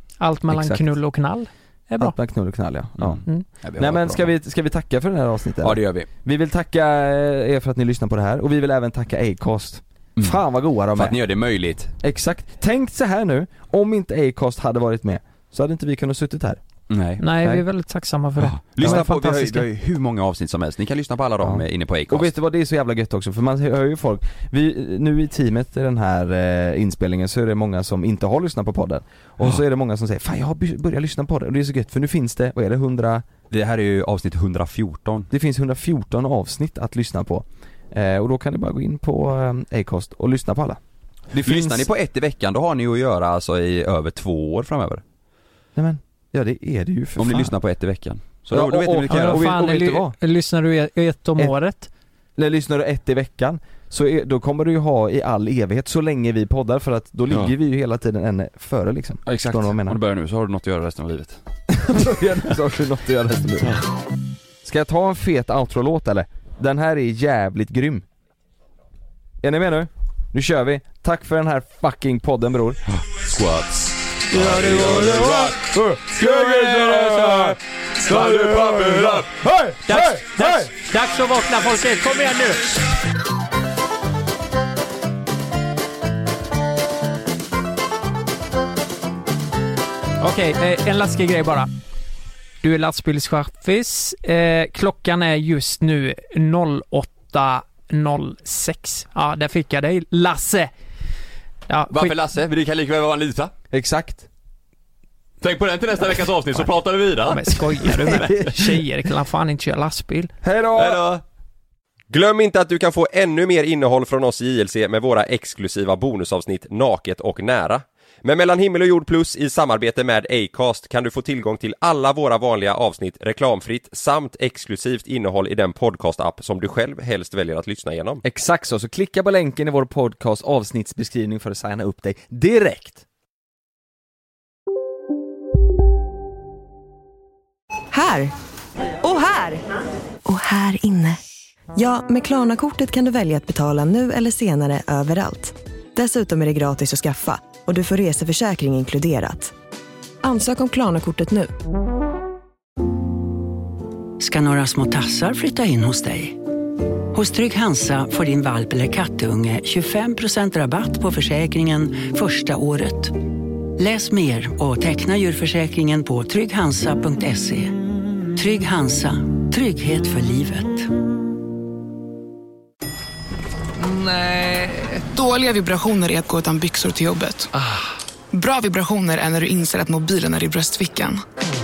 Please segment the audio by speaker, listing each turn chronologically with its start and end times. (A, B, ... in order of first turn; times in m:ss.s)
0:00.2-0:02.2 A
0:02.0-0:03.2 B
0:03.0-0:04.3 C
0:03.8-0:11.2 B
0:05.6-0:06.1 C
0:10.9-0:11.9 C
0:12.0-0:16.6 B
0:16.9-0:17.2 C
0:17.2-0:19.6 A
0:18.4-0:22.3 C
0:18.8-0:19.1 B
0:21.4-0:33.3 B
0:33.5-0:35.3 C
0:35.3-0:40.8 B
0:41.3-0:45.0 C
0:41.5-0:41.8 B
0:45.8-0:47.5 B
0:47.2-0:49.5 C
0:48.5-0:50.2 B
0:49.1-0:51.9 A
0:52.4-1:00.0 B
0:59.3-1:01.4 C
1:01.7-1:03.8 B
1:04.6-1:08.0 B
1:09.4-1:12.8 B
1:12.9-1:19.4 C
1:14.3-1:17.6 B
1:18.1-1:20.7 B
1:19.9-1:22.7 A
1:30.2-1:31.7 A
1:32.6-1:40.7 A
1:41.7-1:42.2 A
1:41.9-1:43.5 C
1:43.7-1:44.3 B
1:45.4-1:48.3 C
1:47.3-1:50.3 A
1:48.1-1:48.6 B
1:50.4-1:51.0 B
1:50.7-1:51.2 C
1:52.1-2:08.2 D
2:08.2-2:13.0 B
2:17.9-2:18.3 E
2:19.0-2:19.6 E
2:20.2-2:21.2 E
2:21.8-2:29.5 E
2:30.2-2:31.5 E
2:34.2-2:36.4 F
2:37.1-2:43.2 F
2:43.8-2:47.7 F
2:48.4-2:50.9 F
2:53.8-2:57.5 G
2:58.3-3:01.2 G